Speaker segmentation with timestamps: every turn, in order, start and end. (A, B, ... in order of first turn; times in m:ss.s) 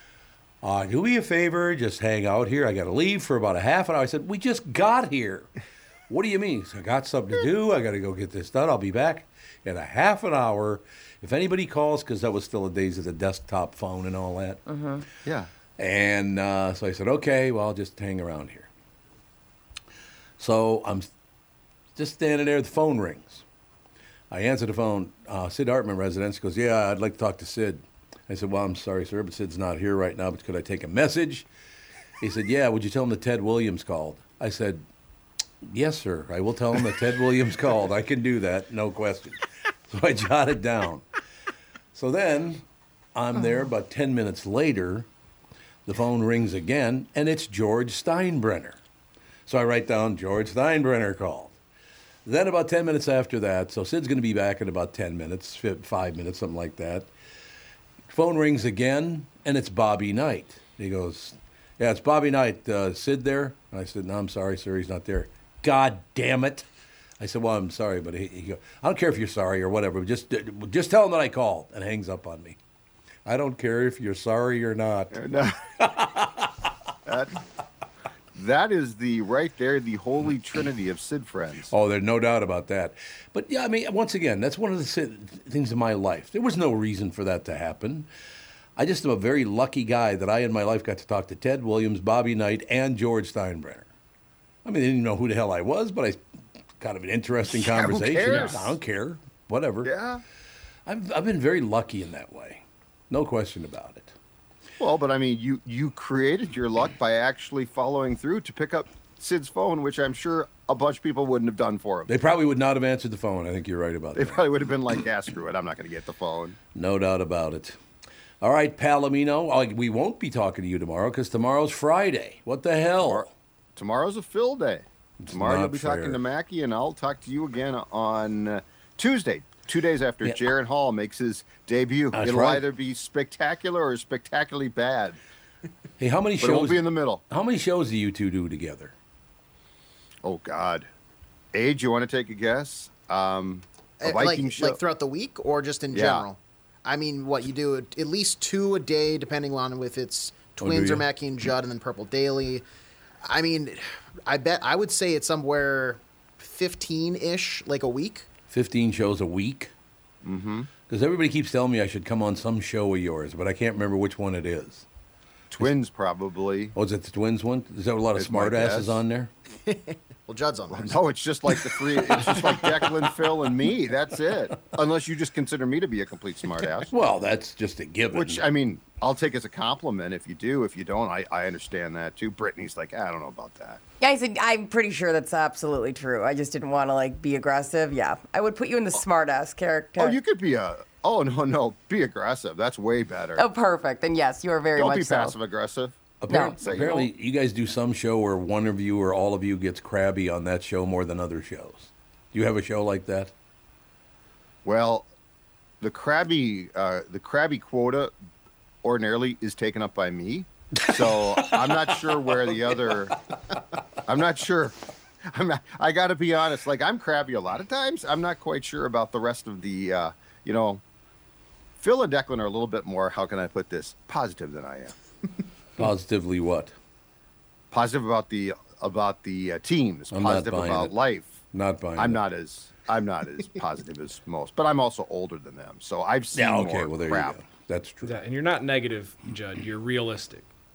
0:00.6-0:05.5 A
0:06.1-0:14.6 A
0:14.7-0:15.0 B
0:15.8-0:18.7 A
0:20.4-0:21.1 A
0:22.0-0:23.4 A
0:24.3-0:31.5 A
0:32.2-0:34.8 A
0:35.6-0:41.0 A
0:41.9-0:42.6 A
0:43.2-0:45.1 A
0:45.9-0:48.8 A
0:49.5-0:51.6 A
0:52.2-0:57.1 A
0:58.1-1:06.7 A
1:07.2-1:12.6 A
1:13.3-1:15.2 A
1:15.1-1:15.6 C
1:15.8-1:16.5 A
1:17.1-1:17.4 C
1:18.4-1:21.7 C
1:21.7-1:28.1 A
1:28.8-1:33.9 A
1:34.6-1:36.2 A
1:36.8-1:39.9 A
1:37.5-1:38.8 C
1:38.2-1:38.6 D
1:39.8-1:40.2 C
1:40.9-1:44.1 A
1:44.8-1:52.1 C
1:52.1-1:54.4 A
1:54.2-1:56.6 C
1:56.8-1:57.8 A
1:58.4-2:03.3 A
2:03.0-2:15.2 C
2:05.2-2:06.2 A
2:12.1-2:12.6 A
2:16.0-2:18.9 A
2:16.4-2:17.2 C
2:20.2-2:20.9 C
2:21.5-2:24.8 C
2:24.0-2:32.6 E
2:25.9-2:26.3 C
2:30.6-2:31.1 A
2:33.2-2:38.3 E
2:38.5-2:39.7 A
2:40.2-2:40.7 C
2:40.9-2:44.9 A
2:45.5-2:46.8 C
2:46.8-2:49.3 A
2:48.2-2:49.0 C
2:49.7-2:51.0 E
2:50.7-2:56.9 C
2:56.9-2:58.4 A
2:58.1-3:03.8 C
3:04.0-3:10.2 B
3:10.0-3:13.4 C
3:13.4-3:15.4 B
3:14.8-3:16.0 C
3:16.2-3:23.3 A
3:16.3-3:16.6 B
3:16.6-3:17.1 C
3:24.6-3:25.1 C
3:25.8-3:28.1 C
3:28.8-3:33.2 C
3:31.4-3:31.7 A
3:34.1-3:40.8 C
3:41.8-3:45.0 C
3:45.8-3:46.7 A
3:47.7-3:51.4 C
3:50.1-3:50.9 A
3:51.5-3:52.2 A
3:52.0-3:57.4 C
3:56.3-3:58.2 A
3:58.0-4:00.5 D